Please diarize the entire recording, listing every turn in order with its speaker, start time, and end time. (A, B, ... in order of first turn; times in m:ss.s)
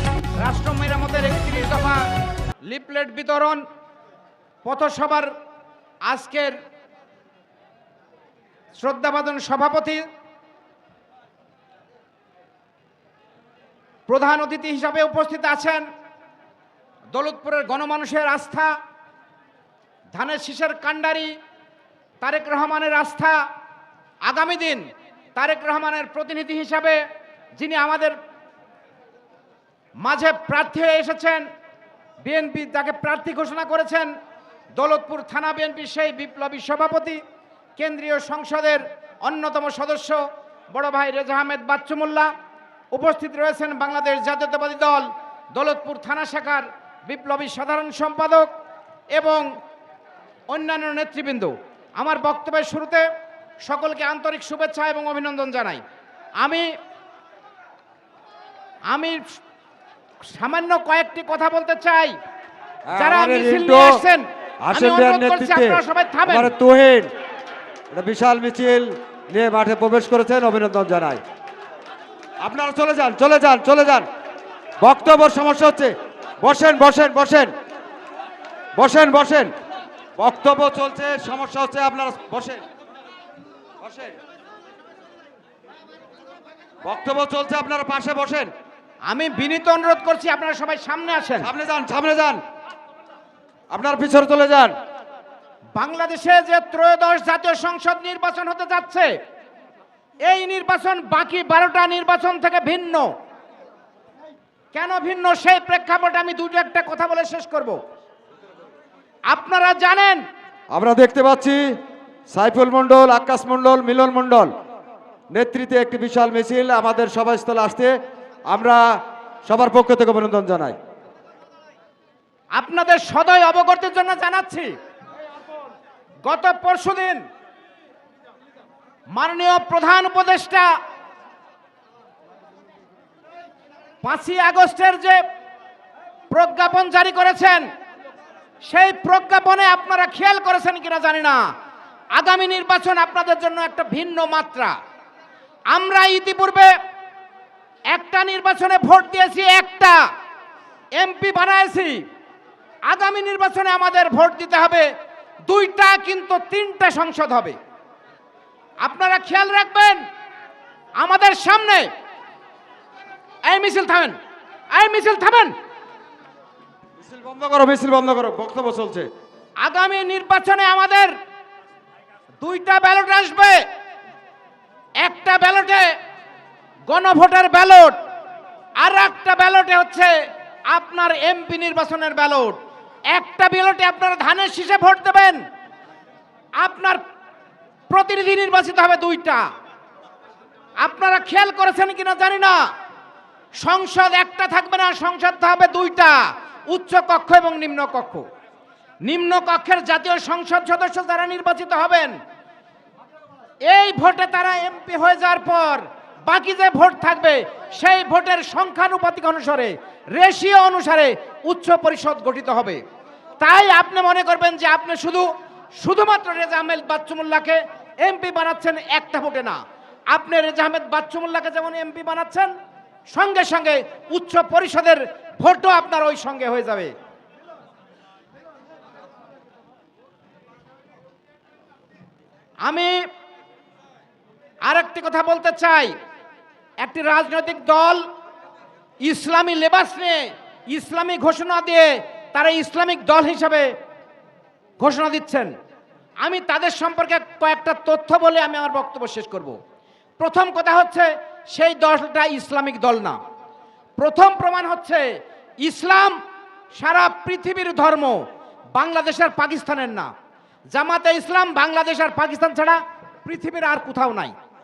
0:00.4-0:02.0 A
0:02.6-0:03.6 A
0:04.6-0:05.3 A
0:06.0-0:06.6 A
0:08.8-0:10.0 A
0:14.1-0:15.8 A
0:17.1-0:18.7 A
0:20.1-0:21.3 A
0:22.2-0:23.4 A
0:24.2-0:27.0 A
0:27.6-0:28.2 A
0:30.0-0:31.4 A
0:32.2-0:34.1 A
0:34.7-0:37.2 A
0:37.8-0:42.3 A
0:42.9-0:48.5 A
0:49.1-0:49.5 A
0:50.5-0:53.0 A
0:53.6-0:55.8 A
0:56.4-0:56.7 A
0:58.9-0:59.2 A
1:00.3-1:02.2 A
1:02.9-1:04.0 B
1:03.0-1:06.5 A
1:04.6-1:07.1 B
1:07.9-1:11.2 B
1:12.4-1:14.0 B
1:14.8-1:17.5 B
1:18.8-1:19.5 B
1:20.2-1:22.6 B
1:23.8-1:24.2 B
1:26.8-1:28.5 B
1:29.1-1:31.5 A
1:31.4-1:32.4 B
1:33.7-1:34.7 B
1:35.8-1:39.1 A
1:40.2-1:43.1 A
1:44.7-1:47.8 A
1:49.3-1:50.2 A
1:50.7-1:51.6 B
1:52.3-1:54.5 B
1:55.3-1:57.9 B
1:58.5-2:00.8 B
2:02.5-2:04.7 A
2:06.2-2:07.2 A
2:09.1-2:10.7 A
2:14.0-2:15.2 A
2:16.3-2:17.7 A
2:18.6-2:21.4 A
2:22.1-2:24.7 A
2:25.7-2:26.7 A
2:27.9-2:30.0 A
2:31.0-2:32.0 A
2:32.9-2:34.9 A
2:35.5-2:37.6 A
2:38.8-2:40.0 A
2:41.0-2:41.9 A
2:43.4-2:44.2 A
2:44.7-2:45.5 A
2:47.0-2:49.1 B
2:49.6-2:51.1 A
2:52.4-2:53.6 A
2:55.0-2:55.9 A
2:56.9-2:58.0 A
2:58.8-3:00.2 A
3:00.7-3:02.6 A
3:03.1-3:05.4 A
3:06.6-3:07.0 A
3:07.9-3:09.4 A
3:10.8-3:12.6 A
3:13.6-3:18.2 A
3:19.0-3:22.2 A
3:23.7-3:32.8 A
3:33.4-3:39.6 A
3:40.1-3:42.5 A
3:43.1-3:46.9 A
3:52.6-3:53.0 A
3:54.6-3:55.9 A
3:56.8-3:58.1 A
3:59.0-4:03.7 A
4:04.8-4:05.5 A
4:06.2-4:09.6 A
4:10.2-4:13.2 A
4:14.0-4:16.2 A
4:16.7-4:18.2 A
4:18.7-4:20.1 A
4:20.7-4:24.3 A